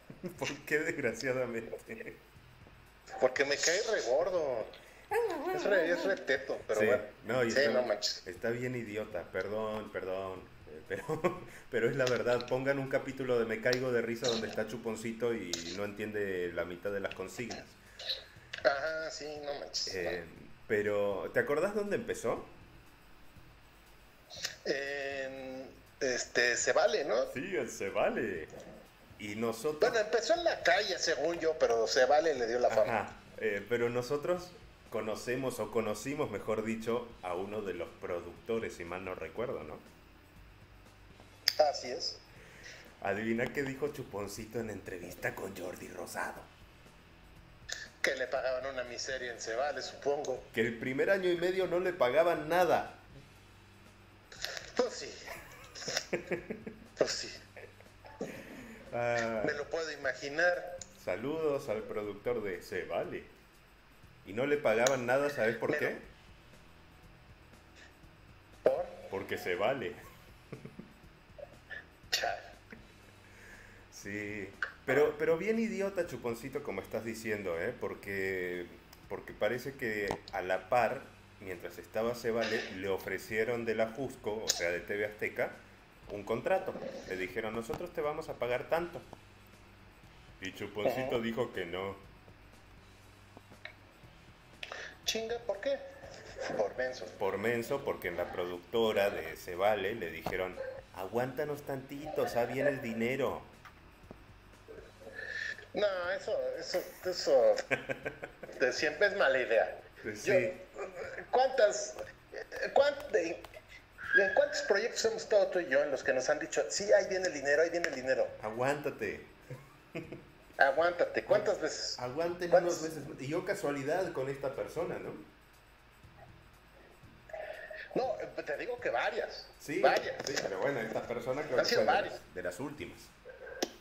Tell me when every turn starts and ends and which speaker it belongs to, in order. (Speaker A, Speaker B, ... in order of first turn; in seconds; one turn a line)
Speaker A: 0.2-2.2
Speaker B: 3.2-4.7
Speaker A: 5.2-6.1
Speaker B: 5.5-8.2
Speaker A: 6.7-17.8
Speaker B: 18.6-20.2
Speaker A: 19.9-22.5
Speaker B: 24.6-27.3
Speaker A: 27.3-28.5
Speaker A: 29.2-30.0
Speaker B: 29.8-33.0
Speaker A: 32.7-39.9
Speaker B: 41.6-42.2
Speaker A: 43.0-46.5
Speaker B: 48.0-50.5
Speaker A: 50.5-53.0
Speaker B: 54.7-55.2
Speaker A: 56.1-56.5
Speaker B: 57.0-57.4
Speaker A: 58.9-59.6
Speaker B: 59.4-60.8
Speaker A: 61.0-63.3
Speaker A: 64.2-66.0
Speaker B: 65.7-66.0
Speaker B: 68.6-69.1
Speaker A: 69.1-70.0
Speaker B: 72.1-72.4
Speaker A: 73.9-89.0
Speaker A: 90.4-92.0
Speaker B: 90.8-91.2
Speaker B: 95.0-95.8
Speaker B: 96.5-97.2
Speaker A: 97.2-103.5
Speaker B: 105.7-107.6
Speaker B: 108.6-113.5
Speaker A: 110.0-110.5
Speaker B: 114.1-118.3
Speaker A: 118.4-119.3
Speaker B: 120.6-122.0
Speaker A: 121.3-125.3
Speaker B: 122.5-122.9
Speaker B: 127.9-130.3
Speaker A: 129.6-133.1
Speaker B: 131.6-132.2